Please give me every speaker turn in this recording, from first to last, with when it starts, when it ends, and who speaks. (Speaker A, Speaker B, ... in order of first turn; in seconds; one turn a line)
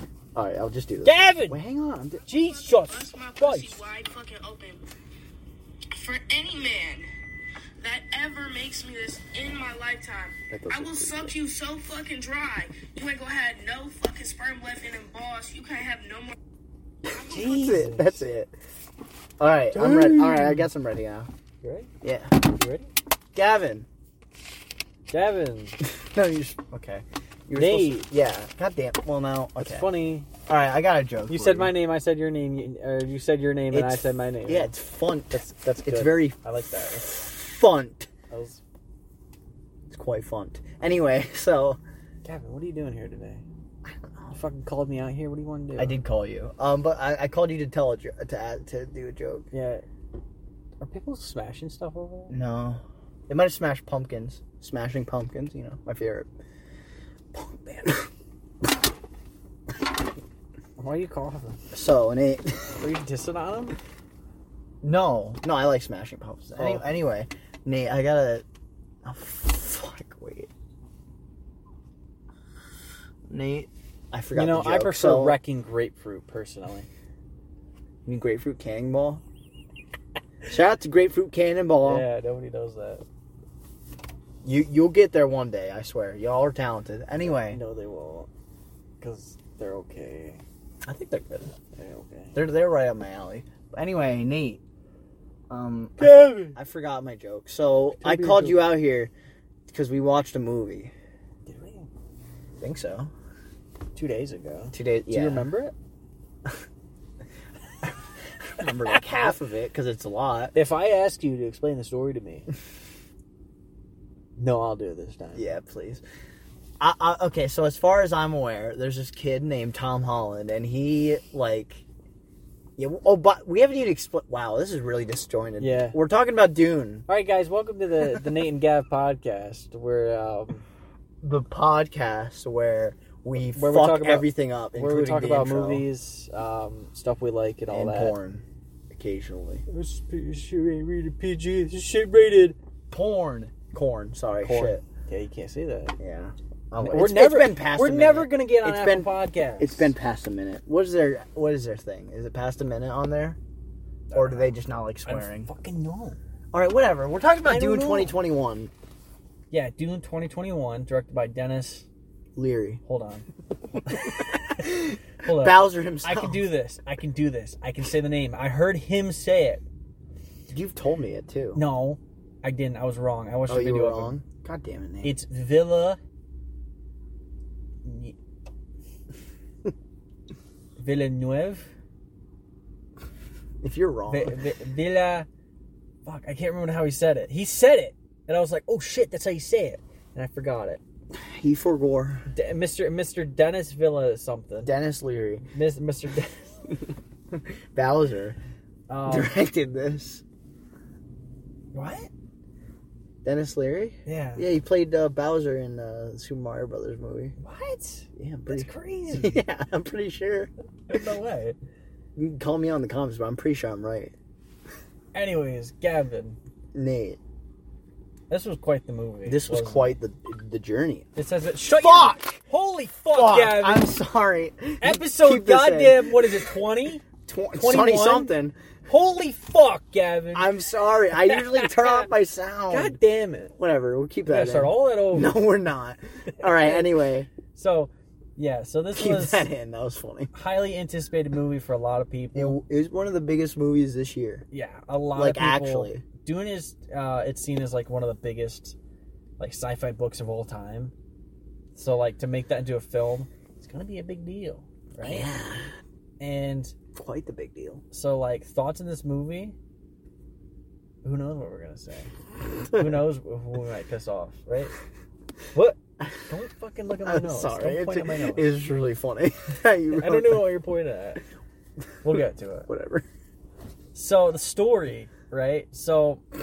Speaker A: 0.3-2.2
Speaker B: 1.0-1.6
Speaker B: 2.2-3.8
Speaker C: 2.3-4.8
Speaker C: 5.9-7.1
Speaker C: 7.8-16.4
Speaker A: 10.5-11.3
Speaker A: 17.1-18.5
Speaker C: 17.1-17.8
Speaker B: 17.3-18.3
Speaker A: 19.4-21.3
Speaker B: 19.7-20.7
Speaker B: 21.6-21.9
Speaker A: 22.0-22.5
Speaker B: 22.4-22.9
Speaker A: 23.3-23.9
Speaker B: 25.1-25.8
Speaker A: 25.8-29.9
Speaker B: 27.5-28.1
Speaker B: 29.6-30.3
Speaker A: 30.4-31.7
Speaker B: 31.3-34.7
Speaker A: 33.7-36.4
Speaker B: 35.3-37.1
Speaker A: 36.9-38.1
Speaker B: 38.3-38.6
Speaker A: 39.9-41.8
Speaker B: 42.2-43.4
Speaker A: 43.8-44.4
Speaker B: 44.3-46.0
Speaker A: 45.8-49.5
Speaker B: 49.5-49.8
Speaker B: 50.8-52.3
Speaker A: 52.3-56.3
Speaker A: 57.3-58.1
Speaker B: 60.8-61.6
Speaker A: 61.7-62.8
Speaker B: 62.8-63.8
Speaker A: 64.8-68.4
Speaker B: 66.6-66.9
Speaker A: 69.0-70.5
Speaker A: 73.3-75.4
Speaker B: 74.3-76.9
Speaker A: 78.0-79.2
Speaker A: 80.5-82.0
Speaker B: 81.8-83.0
Speaker A: 84.4-87.6
Speaker B: 87.2-88.3
Speaker B: 89.0-90.4
Speaker A: 90.8-91.5
Speaker B: 91.7-92.4
Speaker A: 92.3-94.6
Speaker A: 95.5-99.1
Speaker B: 96.0-96.6
Speaker B: 98.0-98.7
Speaker A: 99.7-100.9
Speaker B: 101.5-101.9
Speaker A: 102.6-103.1
Speaker B: 103.9-105.7
Speaker A: 104.7-105.5
Speaker A: 108.5-110.5
Speaker B: 108.6-109.4
Speaker B: 110.5-112.5
Speaker B: 114.4-115.4
Speaker A: 115.3-116.0
Speaker A: 116.8-121.8
Speaker A: 122.8-127.1
Speaker B: 125.6-126.0
Speaker B: 127.1-130.6
Speaker A: 131.2-135.8
Speaker B: 133.5-138.2
Speaker A: 137.7-139.6
Speaker B: 139.7-142.6
Speaker A: 142.9-144.8
Speaker B: 144.4-145.9
Speaker A: 146.0-153.4
Speaker B: 146.8-149.9
Speaker B: 154.1-154.5
Speaker A: 154.1-155.5
Speaker B: 155.1-156.2
Speaker A: 156.5-158.7
Speaker B: 157.4-158.2
Speaker B: 159.5-161.8
Speaker A: 162.3-162.8
Speaker B: 162.8-163.2
Speaker B: 163.8-169.6
Speaker A: 164.4-166.5
Speaker A: 170.5-171.6
Speaker B: 171.5-174.2
Speaker A: 173.5-175.1
Speaker B: 175.0-176.0
Speaker B: 177.8-178.2
Speaker B: 180.8-181.7
Speaker A: 183.6-184.4
Speaker B: 184.1-185.3
Speaker B: 186.0-190.8
Speaker A: 191.1-192.3
Speaker B: 192.3-194.7
Speaker A: 194.6-195.4
Speaker B: 195.5-196.6
Speaker A: 197.3-198.4
Speaker B: 198.9-199.3
Speaker A: 199.1-200.2
Speaker B: 201.7-202.1
Speaker A: 203.2-207.3
Speaker B: 204.1-204.4
Speaker B: 207.4-209.4
Speaker A: 208.2-210.5
Speaker B: 210.9-211.6
Speaker A: 212.2-214.1
Speaker B: 215.1-216.4
Speaker A: 216.7-217.2
Speaker B: 218.3-220.0
Speaker A: 219.2-221.1
Speaker B: 221.2-223.9
Speaker A: 221.7-222.4
Speaker A: 223.1-226.5
Speaker B: 224.8-228.3
Speaker A: 227.2-228.6
Speaker B: 228.9-230.5
Speaker A: 230.3-233.0
Speaker B: 231.1-232.1
Speaker B: 232.7-233.5
Speaker A: 233.6-237.3
Speaker B: 234.3-235.4
Speaker B: 236.4-236.9
Speaker B: 237.5-239.5
Speaker A: 238.9-240.3
Speaker B: 240.3-242.6
Speaker A: 242.3-244.4
Speaker B: 244.5-248.8
Speaker A: 245.1-246.0
Speaker B: 249.4-250.9
Speaker B: 251.7-255.3
Speaker A: 255.0-255.7
Speaker B: 256.2-256.7
Speaker A: 256.9-257.8
Speaker B: 257.9-259.6
Speaker B: 261.0-262.1
Speaker B: 262.7-264.7
Speaker B: 265.5-268.5
Speaker A: 267.0-270.5
Speaker B: 269.9-271.2
Speaker B: 272.0-272.7
Speaker A: 272.7-273.0
Speaker B: 273.9-276.2